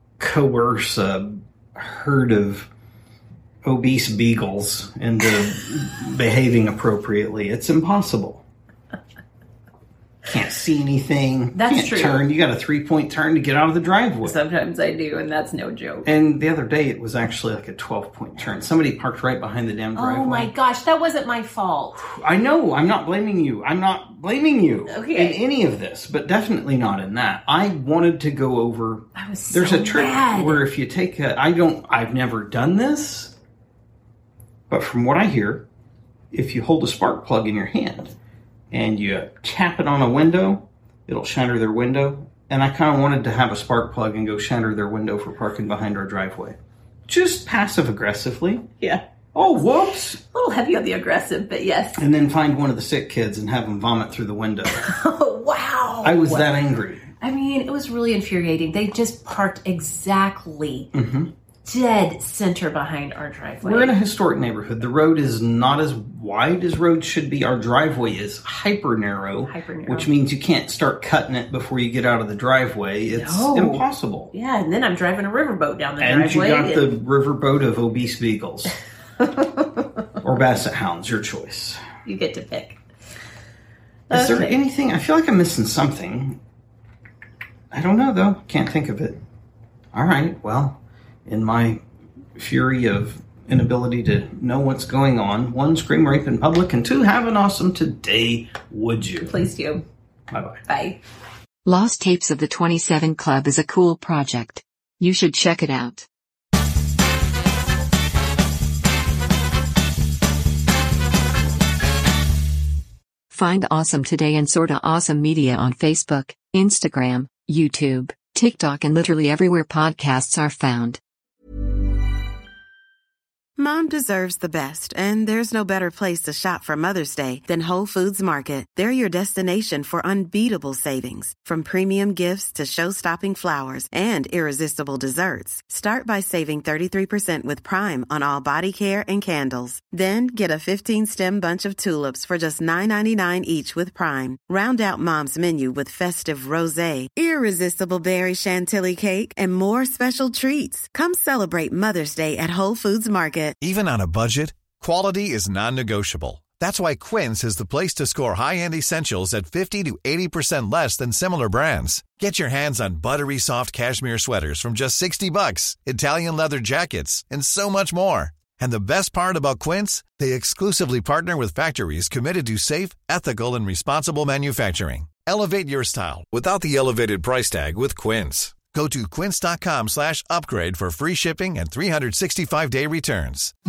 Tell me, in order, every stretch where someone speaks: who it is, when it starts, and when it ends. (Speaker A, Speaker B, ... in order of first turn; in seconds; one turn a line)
Speaker A: 0.2-2.7
Speaker A: 3.6-8.4
Speaker A: 10.3-14.4
Speaker B: 11.5-12.2
Speaker B: 14.2-16.1
Speaker A: 16.1-20.5
Speaker B: 19.9-22.0
Speaker A: 22.0-33.3
Speaker B: 24.9-25.4
Speaker B: 29.1-30.7
Speaker A: 34.7-35.7
Speaker A: 36.3-38.1
Speaker A: 38.7-48.7
Speaker A: 49.3-50.2
Speaker B: 50.3-52.0
Speaker A: 52.0-54.9
Speaker B: 54.7-56.5
Speaker A: 56.0-57.1
Speaker B: 57.2-60.9
Speaker A: 60.9-61.3
Speaker B: 61.6-64.0
Speaker A: 63.6-74.3
Speaker B: 69.5-70.1
Speaker B: 73.2-76.9
Speaker A: 76.0-78.8
Speaker A: 80.2-81.8
Speaker B: 82.1-82.8
Speaker B: 84.1-84.6
Speaker A: 84.1-86.4
Speaker A: 87.7-89.2
Speaker A: 89.9-91.8
Speaker A: 92.4-99.3
Speaker B: 99.2-99.8
Speaker A: 100.3-100.6
Speaker B: 100.7-101.0
Speaker C: 101.7-106.1
Speaker C: 113.3-121.0
Speaker D: 123.6-153.6
Speaker E: 153.6-183.5